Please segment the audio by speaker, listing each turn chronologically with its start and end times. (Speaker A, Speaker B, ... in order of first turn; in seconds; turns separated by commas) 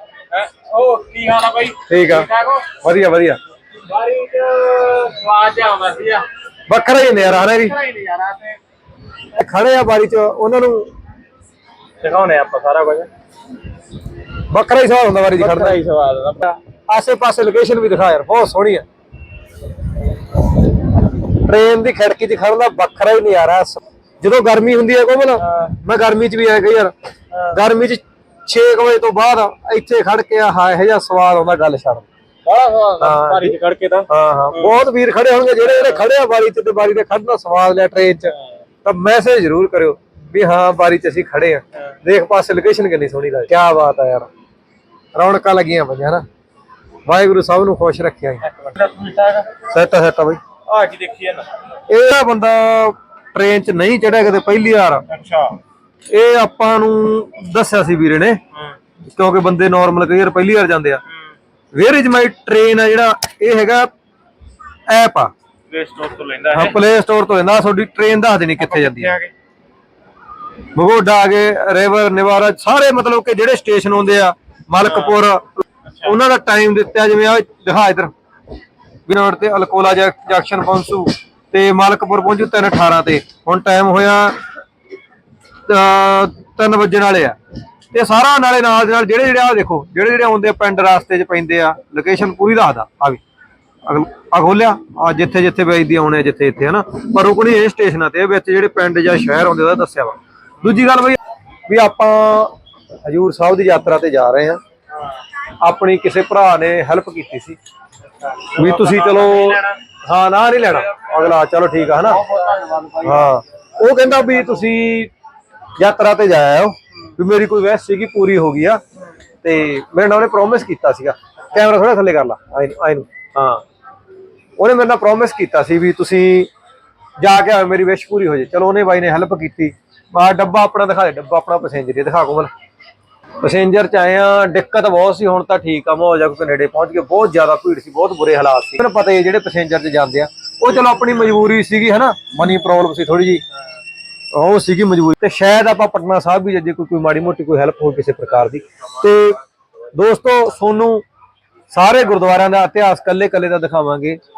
Speaker A: 0.3-2.7, Speaker B: 1.9-2.3, Speaker B: 2.8-3.4, Speaker A: 3.8-6.3, Speaker B: 6.7-7.8, Speaker A: 7.5-8.6, Speaker B: 9.3-10.9, Speaker A: 12.0-13.1, Speaker B: 14.5-15.8, Speaker A: 15.3-16.6, Speaker B: 16.9-18.9, Speaker B: 21.2-26.9, Speaker A: 25.4-25.8, Speaker A: 27.3-27.6, Speaker B: 27.5-32.1, Speaker A: 32.5-34.8, Speaker B: 33.0-33.5, Speaker B: 34.1-38.3, Speaker A: 35.7-36.0, Speaker B: 38.8-44.3, Speaker B: 45.2-46.2, Speaker B: 47.0-48.4, Speaker A: 48.4-49.5, Speaker B: 49.7-50.4, Speaker A: 50.7-51.5, Speaker B: 51.9-55.0, Speaker A: 55.1-55.6, Speaker B: 56.1-58.4, Speaker B: 59.1-61.0, Speaker B: 61.7-63.9, Speaker B: 64.9-65.3, Speaker A: 65.7-66.8, Speaker B: 66.5-69.2, Speaker A: 68.6-69.3, Speaker B: 70.7-78.1, Speaker A: 74.8-75.1, Speaker A: 75.8-76.2, Speaker B: 79.1-84.4, Speaker B: 85.7-87.3, Speaker B: 87.9-93.2, Speaker B: 93.8-104.6, Speaker B: 105.6-107.6, Speaker A: 108.3-109.8, Speaker B: 108.5-112.2, Speaker A: 112.0-113.3, Speaker B: 113.0-115.1, Speaker B: 115.8-118.8, Speaker B: 119.4-123.6, Speaker B: 124.6-126.5, Speaker B: 127.2-132.5, Speaker B: 133.4-143.4, Speaker B: 144.3-149.4, Speaker B: 149.9-151.0, Speaker B: 151.7-154.2